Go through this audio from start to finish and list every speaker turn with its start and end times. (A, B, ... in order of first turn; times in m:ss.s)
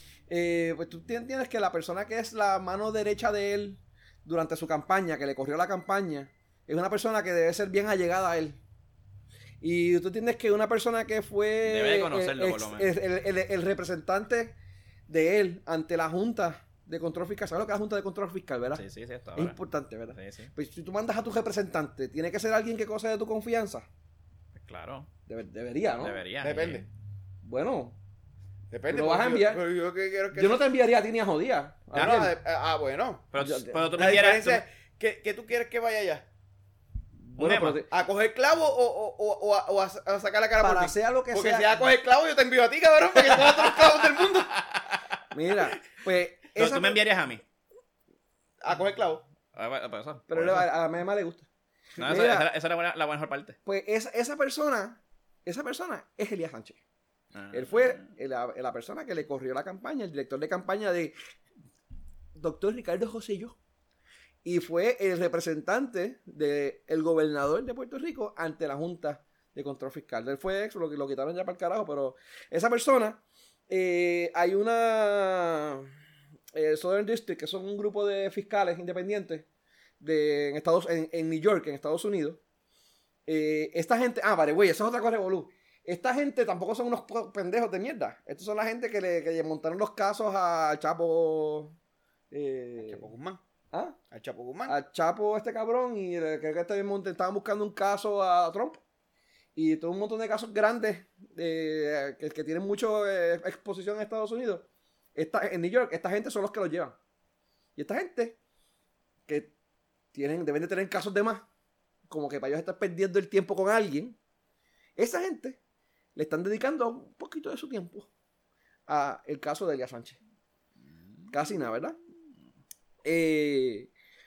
0:00.3-0:08.6 A
0:09.6-0:14.6 A
0:11.6-0:12.9 B
0:15.1-0:18.8 A
0:18.7-0:19.6 B
0:19.4-0:23.9 A
0:20.1-0:20.5 B
0:24.5-0:25.1 B
0:25.3-0:26.2 A
0:26.0-0:26.9 B
0:26.4-0:26.8 C
0:27.4-0:28.0 A
0:28.7-0:30.7 C
0:28.9-0:29.6 A
0:30.3-0:32.3 A
0:31.9-0:33.2 C
0:33.3-0:34.6 B
0:33.4-0:34.0 A
0:34.0-0:36.2 C
0:37.2-0:37.9 A
0:37.4-0:37.8 B
0:37.9-0:44.6 C
0:40.6-0:41.8 A
0:45.3-0:47.0 A
0:46.5-0:47.4 B
0:48.6-0:49.2 C
0:49.5-0:50.7 B
0:50.3-0:52.5 A
0:52.0-0:53.6 B
0:53.6-0:56.8 A
0:57.3-0:58.1 B
0:57.5-1:01.1 A
1:02.3-1:03.6 A
1:04.4-1:15.9 A
1:16.5-1:19.5 A
1:20.0-1:22.4 A
1:23.3-1:31.8 A
1:32.3-1:33.0 A
1:32.8-1:33.4 C
1:33.7-1:34.0 A
1:34.1-1:34.8 C
1:34.7-1:38.8 A
1:39.6-1:47.0 A
1:47.8-1:48.4 A
1:49.3-1:49.5 A
1:50.1-1:51.5 A
1:52.1-1:54.2 A
1:55.0-1:55.6 A
1:56.1-1:58.1 A
1:58.9-2:00.2 A
2:01.3-2:02.0 A
2:03.0-2:03.9 A